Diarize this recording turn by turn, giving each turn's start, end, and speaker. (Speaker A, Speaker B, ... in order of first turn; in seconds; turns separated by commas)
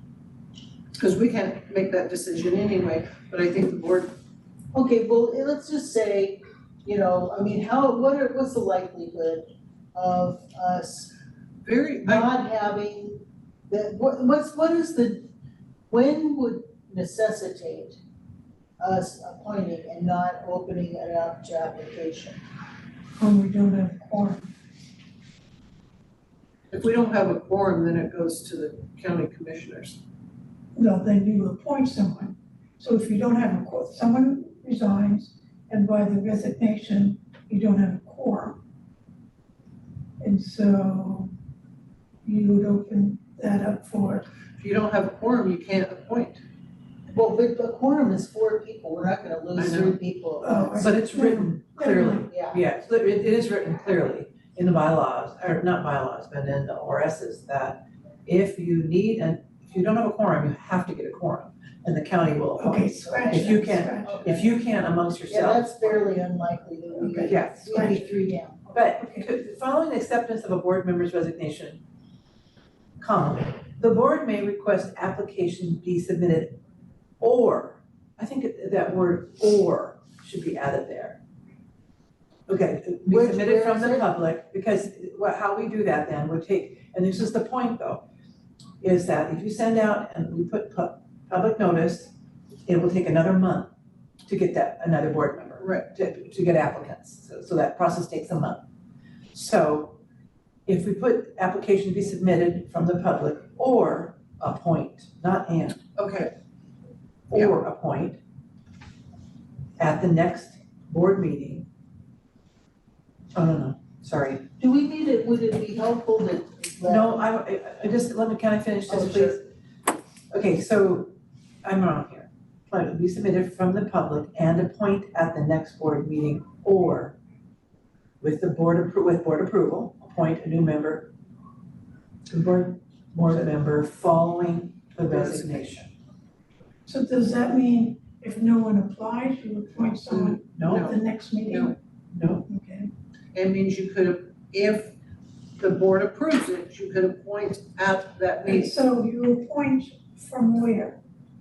Speaker A: 1.0-4.2, Speaker B: 4.7-11.1, Speaker A: 11.6-12.3, Speaker B: 12.0-15.3, Speaker B: 15.9-18.0, Speaker B: 18.8-22.4, Speaker C: 23.2-24.5, Speaker A: 26.7-30.0, Speaker C: 30.8-38.6, Speaker C: 40.2-41.3, Speaker C: 42.2-44.3, Speaker A: 44.6-46.4, Speaker B: 47.1-50.9, Speaker A: 49.5-50.0, Speaker C: 50.4-52.3, Speaker D: 50.8-66.1, Speaker B: 52.3-52.6, Speaker C: 62.6-64.4, Speaker B: 65.3-68.7, Speaker C: 67.0-68.1, Speaker D: 67.2-68.1, Speaker D: 68.7-71.8, Speaker C: 69.0-69.3, Speaker D: 73.0-76.6, Speaker D: 77.2-81.2, Speaker D: 82.5-88.0, Speaker B: 83.1-84.1, Speaker D: 88.8-92.1, Speaker D: 92.7-93.7, Speaker D: 94.2-98.7, Speaker A: 95.6-95.9, Speaker D: 99.3-100.0, Speaker D: 100.7-105.8, Speaker A: 106.0-106.3, Speaker D: 107.3-108.2, Speaker D: 109.8-111.7, Speaker D: 113.3-114.5, Speaker B: 114.6-117.2, Speaker D: 116.8-119.4, Speaker B: 118.9-119.4, Speaker D: 120.3-121.1, Speaker D: 121.6-127.2, Speaker D: 128.2-131.1, Speaker D: 132.3-135.9, Speaker A: 135.0-135.8, Speaker C: 136.9-141.8, Speaker A: 140.1-141.8, Speaker D: 140.6-140.9, Speaker D: 142.1-142.5, Speaker C: 142.5-142.9, Speaker A: 143.3-144.9, Speaker A: 145.6-148.8, Speaker C: 148.4-151.0